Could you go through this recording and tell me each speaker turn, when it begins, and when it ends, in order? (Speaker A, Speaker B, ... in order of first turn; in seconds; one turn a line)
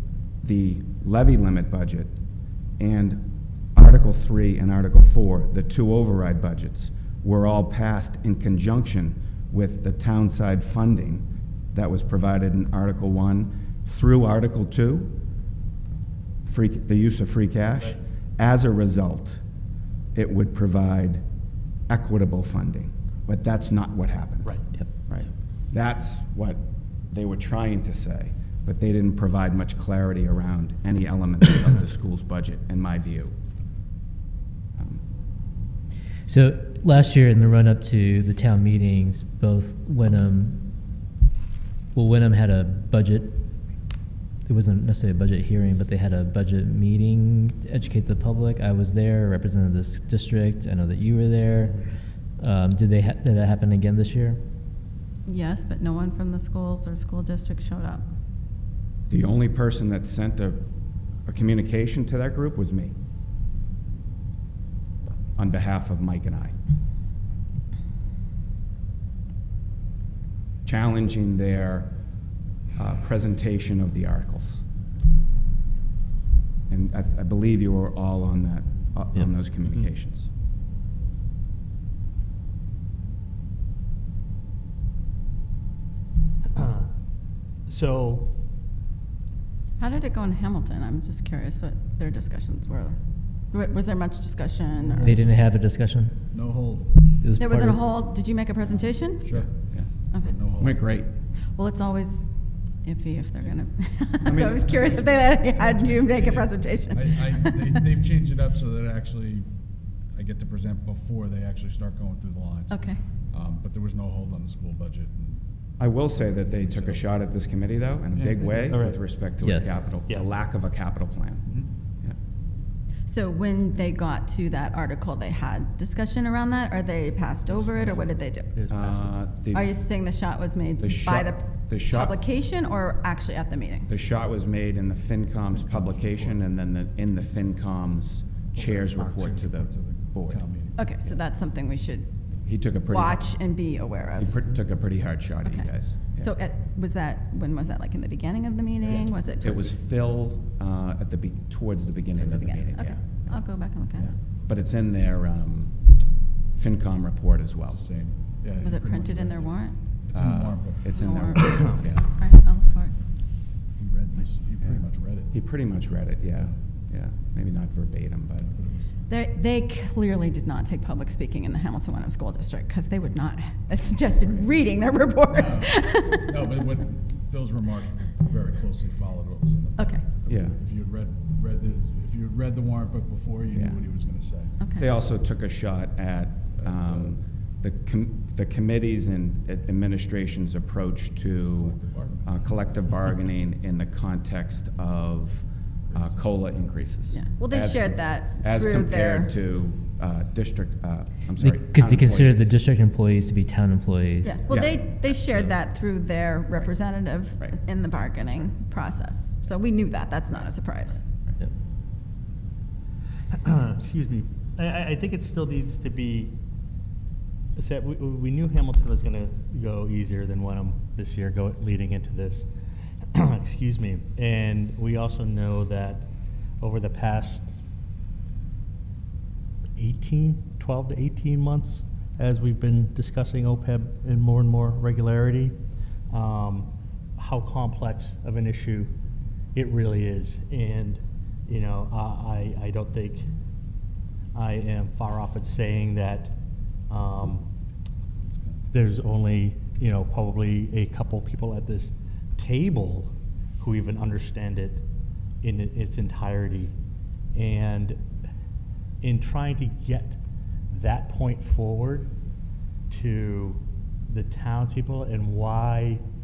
Speaker A: 0.4-2.1
Speaker A: 2.8-15.2
Speaker A: 16.4-19.4
Speaker A: 20.1-21.2
Speaker A: 21.9-33.3
Speaker A: 34.8-35.0
Speaker B: 36.3-40.7
Speaker B: 41.9-43.5
Speaker B: 44.5-51.9
Speaker B: 52.4-54.4
Speaker C: 55.3-58.1
Speaker A: 59.1-60.6
Speaker A: 61.3-62.9
Speaker A: 65.4-66.5
Speaker A: 70.7-71.9
Speaker A: 72.8-74.6
Speaker A: 76.7-80.3
Speaker D: 86.5-86.9
Speaker D: 87.7-88.5
Speaker C: 89.8-93.0
Speaker C: 93.5-95.1
Speaker E: 94.7-95.3
Speaker B: 95.0-96.2
Speaker E: 96.3-97.2
Speaker B: 97.2-97.8
Speaker C: 97.4-99.3
Speaker E: 99.2-99.7
Speaker A: 99.3-99.9
Speaker E: 100.2-100.8
Speaker A: 100.6-101.1
Speaker C: 101.5-102.3
Speaker C: 102.8-107.8
Speaker A: 104.2-104.7
Speaker E: 104.7-109.5
Speaker E: 110.1-115.4
Speaker C: 112.7-113.0
Speaker A: 115.8-121.4
Speaker E: 116.1-117.1
Speaker E: 118.1-118.9
Speaker D: 118.7-119.0
Speaker B: 119.4-119.8
Speaker C: 123.1-128.5
Speaker E: 127.7-128.1
Speaker D: 127.9-129.2
Speaker A: 128.7-129.8
Speaker C: 129.5-133.9
Speaker A: 130.8-132.2
Speaker A: 133.9-140.4
Speaker E: 135.7-136.4
Speaker E: 138.6-141.0
Speaker C: 140.8-142.1
Speaker A: 142.4-143.2
Speaker C: 142.9-144.4
Speaker A: 144.2-146.3
Speaker C: 145.4-149.8
Speaker A: 148.9-153.4
Speaker C: 152.1-154.1
Speaker A: 154.0-155.9
Speaker A: 156.5-157.8
Speaker E: 157.7-161.0
Speaker C: 158.6-159.8
Speaker A: 160.1-162.1
Speaker C: 160.9-163.0
Speaker E: 163.8-165.3
Speaker A: 165.3-168.5
Speaker E: 168.4-168.9
Speaker C: 169.1-176.3
Speaker E: 175.3-184.6
Speaker C: 179.8-180.1
Speaker A: 180.3-180.6
Speaker C: 184.6-184.9
Speaker A: 184.8-202.5
Speaker E: 186.6-187.2
Speaker E: 191.6-192.4
Speaker E: 195.9-196.6
Speaker C: 197.1-199.3
Speaker B: 201.4-204.5
Speaker C: 204.2-211.1
Speaker A: 204.5-205.6
Speaker D: 213.3-216.4
Speaker D: 217.6-222.5
Speaker D: 223.1-227.5
Speaker D: 229.8-235.6
Speaker D: 236.1-238.9
Speaker D: 239.6-243.3
Speaker D: 244.3-246.4
Speaker D: 246.9-247.5
Speaker D: 248.7-254.8
Speaker D: 255.4-256.8
Speaker D: 257.4-258.0
Speaker D: 259.0-262.1
Speaker D: 262.9-266.0